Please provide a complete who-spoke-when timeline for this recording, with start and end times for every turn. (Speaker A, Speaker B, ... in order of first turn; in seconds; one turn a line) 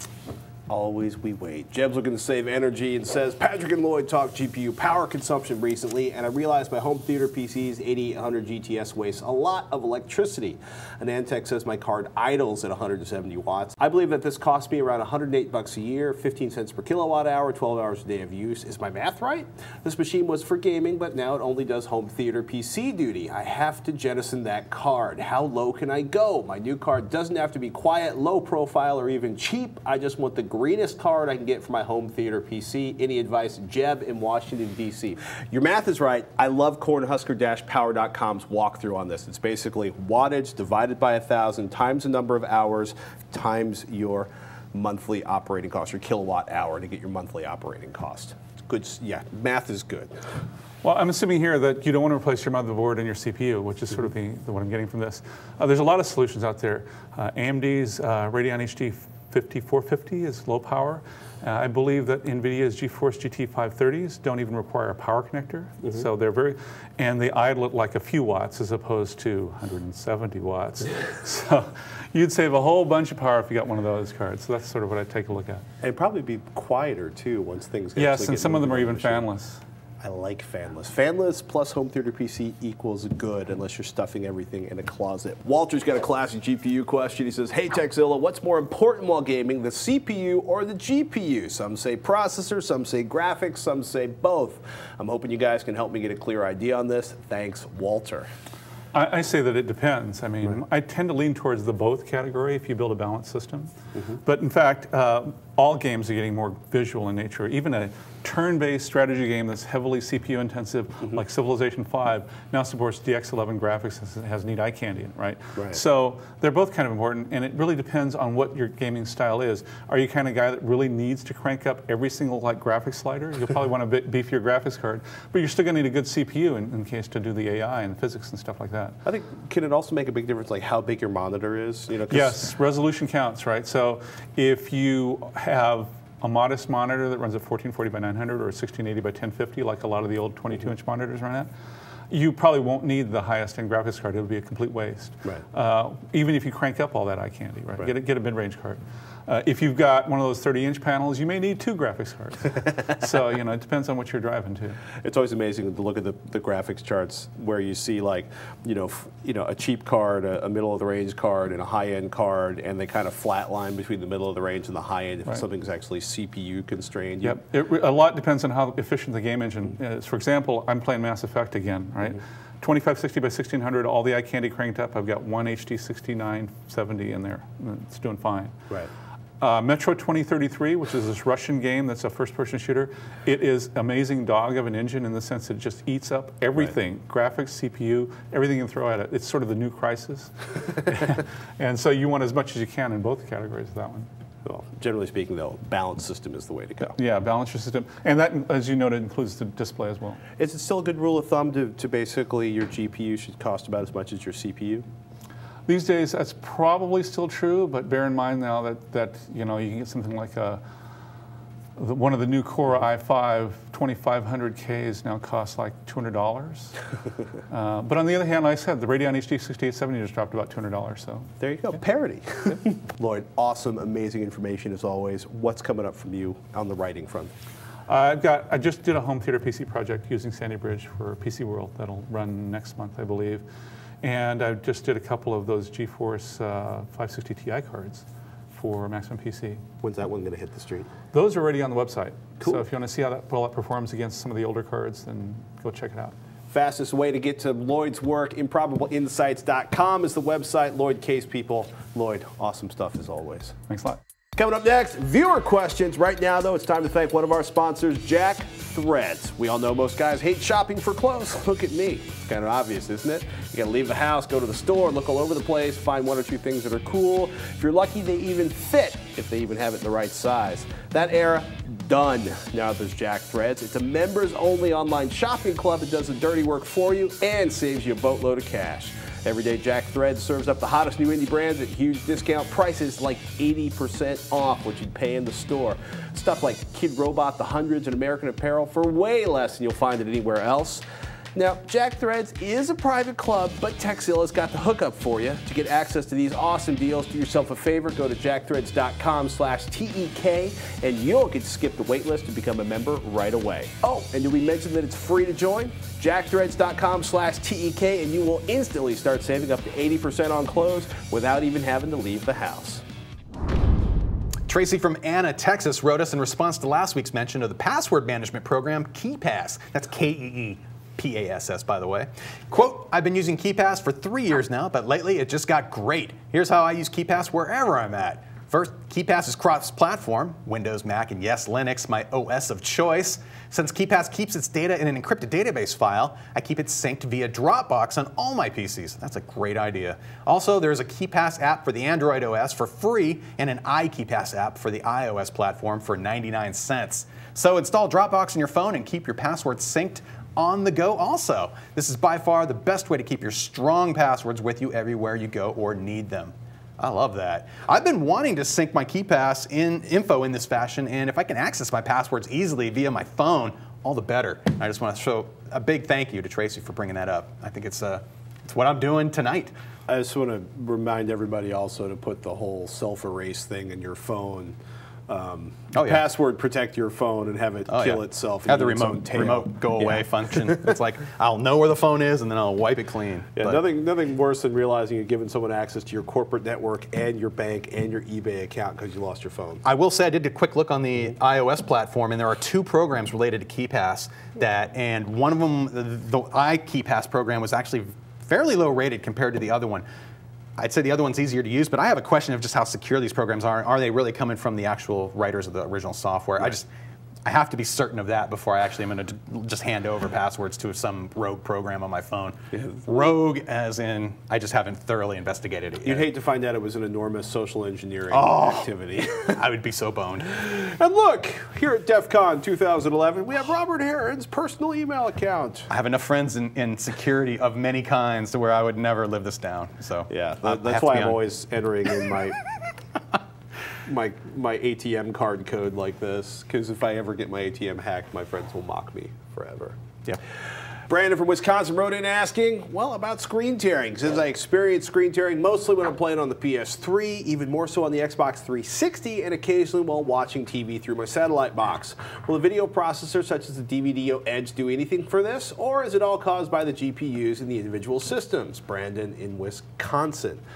Speaker A: 0.7-50.1
Speaker B: 50.8-75.6
Speaker A: 75.8-79.2
Speaker B: 78.0-79.6
Speaker A: 80.0-98.3
Speaker B: 98.9-103.7
Speaker B: 104.2-129.0
Speaker A: 129.1-132.4
Speaker B: 132.1-141.5
Speaker B: 142.1-154.8
Speaker A: 155.0-167.4
Speaker B: 167.2-178.6
Speaker B: 179.4-194.1
Speaker A: 194.4-197.0
Speaker B: 196.9-200.2
Speaker A: 200.4-204.8
Speaker B: 205.7-210.6
Speaker B: 211.8-216.8
Speaker B: 217.5-221.3
Speaker A: 221.4-227.3
Speaker B: 227.9-233.4
Speaker B: 234.0-239.6
Speaker A: 239.8-240.9
Speaker B: 241.1-246.2
Speaker A: 246.5-253.6
Speaker B: 253.7-254.0
Speaker A: 254.4-290.8
Speaker A: 291.4-312.8
Speaker C: 314.5-369.5
Speaker A: 369.9-374.6
Speaker A: 375.1-380.1
Speaker C: 375.7-376.1
Speaker C: 377.7-383.6
Speaker A: 383.4-389.6
Speaker C: 389.6-399.9
Speaker C: 400.6-406.7
Speaker C: 407.2-416.1
Speaker A: 412.5-412.9
Speaker A: 415.9-419.4
Speaker C: 418.1-420.5
Speaker A: 420.3-425.7
Speaker C: 425.7-431.2
Speaker A: 430.1-432.4
Speaker A: 433.9-439.8
Speaker A: 440.9-460.4